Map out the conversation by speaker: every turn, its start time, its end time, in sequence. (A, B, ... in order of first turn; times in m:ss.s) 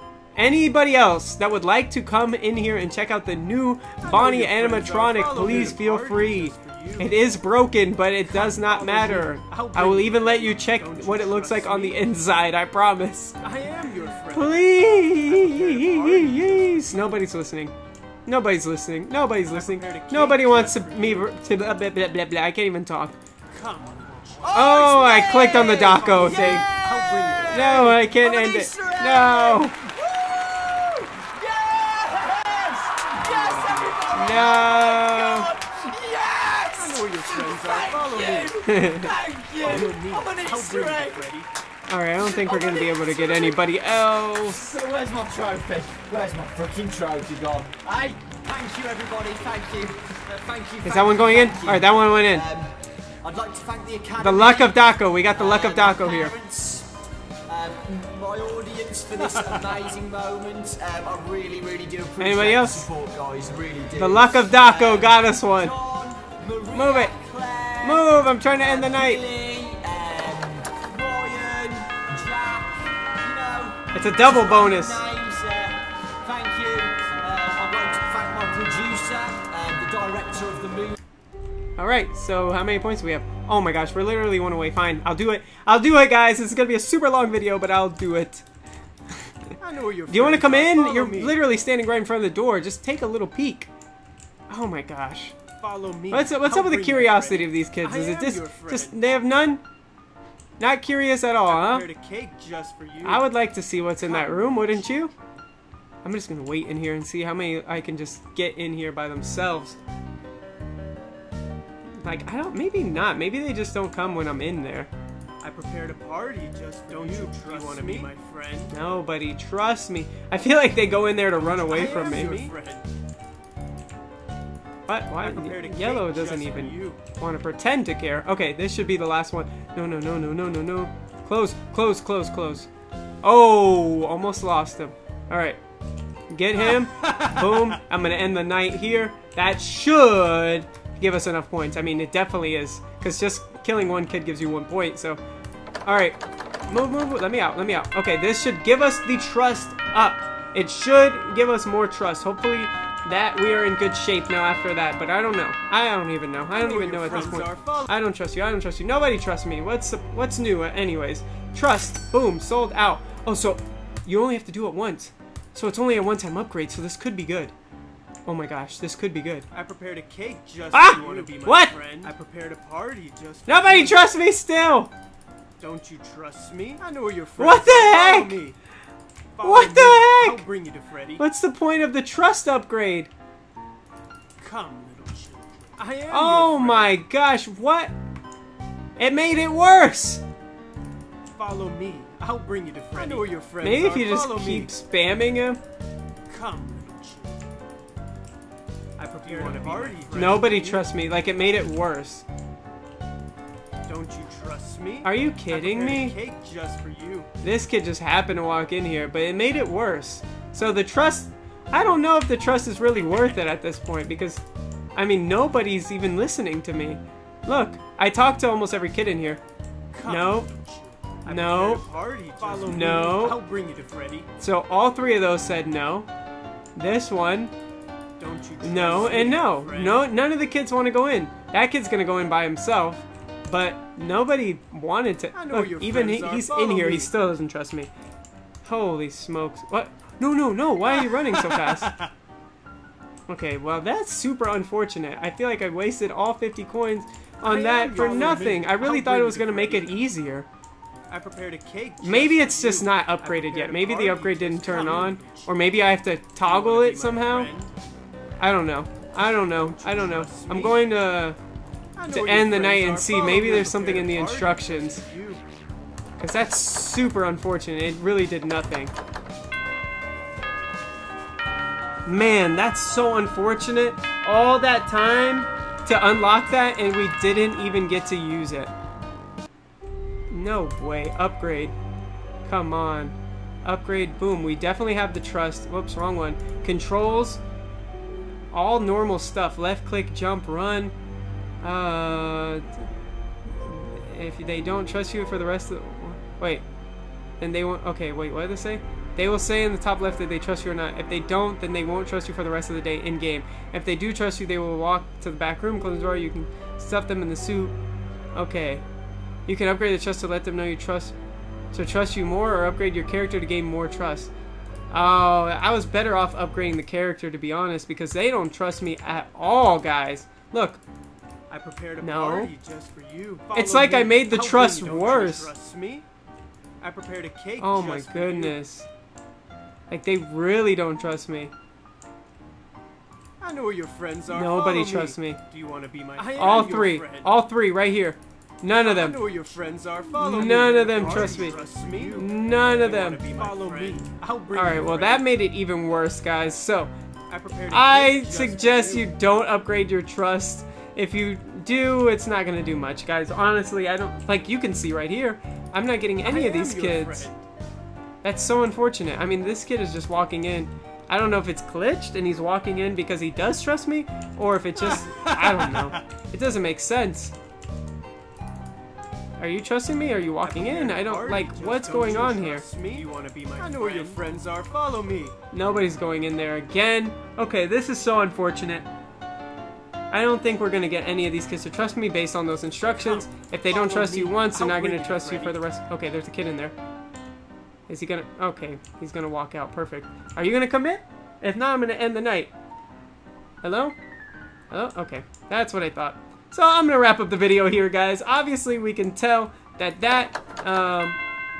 0:00.4-0:13.4 A
0:04.0-0:07.3 B
0:08.3-0:12.0 B
0:13.4-0:17.2 B
0:14.3-0:17.7 A
0:18.2-0:23.2 A
0:19.5-0:21.3 B
0:23.5-0:28.0 B
0:24.4-0:41.4 C
0:24.5-0:26.7 A
0:27.5-0:29.8 A
0:33.1-0:34.6 B
0:34.1-0:35.5 A
0:36.7-0:38.6 B
0:38.6-0:39.1 A
0:39.6-0:41.5 B
0:41.9-0:44.8 A
0:42.2-0:43.6 C
0:44.5-0:54.8 C
0:50.8-0:52.4 A
0:54.2-0:56.3 A
0:55.3-0:56.9 C
0:57.4-1:20.9 C
0:59.3-0:59.6 B
1:02.2-1:02.9 A
1:04.0-1:05.7 A
1:06.7-1:07.1 A
1:07.8-1:09.2 A
1:13.9-1:15.0 A
1:21.8-1:28.4 A
1:29.6-1:31.4 B
1:30.1-1:33.7 A
1:34.5-1:35.4 A
1:35.6-1:39.0 B
1:36.1-1:39.6 A
1:40.6-1:41.8 A
1:41.4-1:43.3 B
1:43.0-1:45.1 A
1:44.0-1:45.0 B
1:46.0-1:49.8 A
1:52.0-1:54.9 A
1:55.4-1:58.7 B
1:56.9-1:58.1 A
1:58.7-2:02.5 A
2:01.3-2:02.9 B
2:04.9-2:12.7 A
2:05.2-2:07.0 B
2:13.2-2:15.6 A
2:16.3-2:25.2 A
2:16.6-2:17.8 B
2:25.8-2:26.2 A
2:26.7-2:47.5 A
2:36.5-2:37.9 B
2:48.2-2:49.5 A
2:49.5-2:54.0 B
2:50.7-2:51.8 A
2:53.5-2:54.9 A
2:55.6-2:58.6 B
2:57.4-2:58.4 A
2:59.4-3:01.2 B
2:59.4-3:00.4 A
3:01.2-3:03.1 A
3:04.4-3:07.0 B
3:06.1-3:07.9 A
3:09.0-3:10.2 A
3:11.3-3:14.7 B
3:13.0-3:15.6 A
3:16.3-3:17.4 B
3:19.0-3:20.9 B
3:19.4-3:22.2 A
3:23.9-3:27.3 B
3:25.0-3:26.2 A
3:27.4-3:34.4 A
3:35.0-3:39.4 A
3:39.9-3:44.3 B
3:40.0-3:40.5 A
3:41.2-3:41.8 A
3:42.4-3:43.4 A
3:44.4-3:46.1 A
3:46.8-3:47.5 A
3:48.2-3:50.0 B
3:48.6-3:57.9 A
3:55.3-3:57.1 B
3:58.6-4:02.0 A
4:01.0-4:02.1 B
4:03.3-4:10.5 A
4:07.4-4:10.0 B
4:11.1-4:15.5 B
4:12.0-4:17.5 A
4:16.4-4:17.7 B
4:18.4-4:21.4 A
4:19.4-4:20.8 B
4:22.0-4:25.4 B
4:22.1-4:25.0 A
4:26.2-4:28.9 A
4:32.0-4:38.7 A
4:40.3-4:41.7 A
4:42.4-4:47.4 A
4:48.5-4:50.9 A
4:51.6-4:52.8 A
4:53.5-4:56.6 A
4:57.4-5:07.7 A
5:08.3-5:08.8 A
5:09.5-5:11.1 A
5:11.7-5:14.3 A
5:14.9-5:20.8 A
5:21.5-5:26.0 B
5:22.0-5:22.5 A
5:23.5-5:25.5 A
5:26.8-5:28.6 B
5:27.6-5:28.9 A
5:29.9-5:31.5 A
5:33.4-5:37.3 B
5:34.3-5:35.4 A
5:36.2-5:39.2 A
5:38.7-5:45.3 B
5:40.2-5:43.6 A
5:44.5-5:46.9 A
5:47.3-5:49.1 B
5:47.7-5:57.3 A
5:56.2-5:57.4 B
5:58.2-6:07.3 A
6:04.8-6:06.0 B
6:09.4-6:12.7 A
6:10.4-6:15.3 B
6:13.7-6:14.1 A
6:15.5-6:18.9 A
6:20.1-6:26.7 A
6:22.8-6:25.6 B
6:27.9-6:32.5 A
6:33.6-6:33.9 A
6:34.7-6:41.2 A